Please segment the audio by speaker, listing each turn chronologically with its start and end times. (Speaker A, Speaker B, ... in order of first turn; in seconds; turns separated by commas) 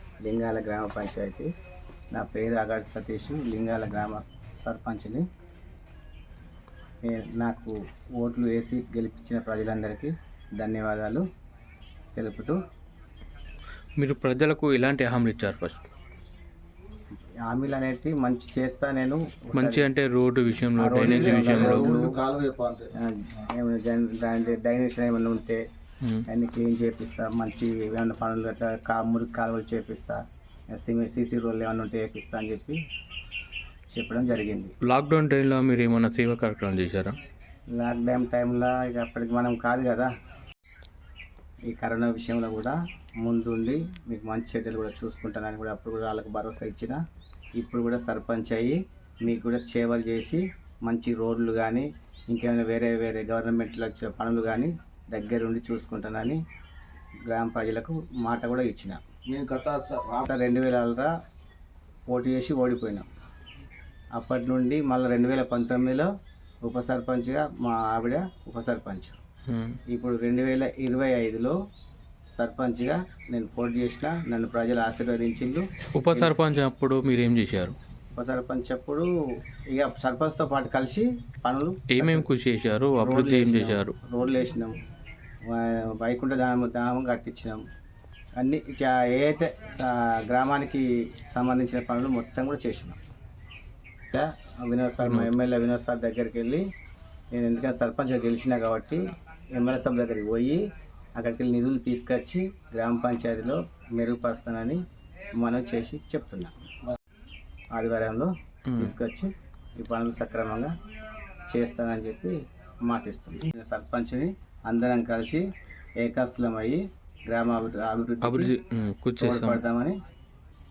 Speaker A: 0.2-1.5, Speaker A: 2.1-5.2, Speaker A: 7.0-11.2, Speaker A: 12.2-12.6, Speaker B: 14.0-15.8, Speaker A: 17.5-19.9, Speaker B: 19.6-21.9, Speaker A: 20.8-22.2, Speaker C: 21.0-22.9, Speaker A: 23.0-25.6, Speaker A: 26.3-30.2, Speaker A: 30.7-32.8, Speaker A: 33.9-34.7, Speaker B: 34.8-37.1, Speaker A: 37.8-40.1, Speaker A: 41.7-47.0, Speaker A: 47.6-56.4, Speaker A: 57.3-59.0, Speaker C: 59.3-60.3, Speaker A: 60.3-61.1, Speaker A: 62.1-63.1, Speaker A: 64.2-66.1, Speaker A: 66.7-69.2, Speaker B: 69.5-69.8, Speaker A: 69.9-71.6, Speaker A: 72.3-76.3, Speaker B: 76.0-77.8, Speaker A: 78.2-79.1, Speaker A: 79.7-82.3, Speaker B: 81.9-84.0, Speaker A: 83.0-84.8, Speaker A: 85.5-87.6, Speaker A: 88.4-93.0, Speaker A: 94.1-96.6, Speaker B: 95.0-95.3, Speaker A: 97.3-99.0, Speaker A: 99.6-100.6, Speaker A: 101.2-104.8, Speaker A: 105.4-106.5, Speaker A: 107.7-110.7, Speaker B: 108.7-109.0, Speaker A: 111.5-115.4, Speaker A: 116.0-118.5, Speaker B: 118.2-119.6, Speaker A: 119.2-120.0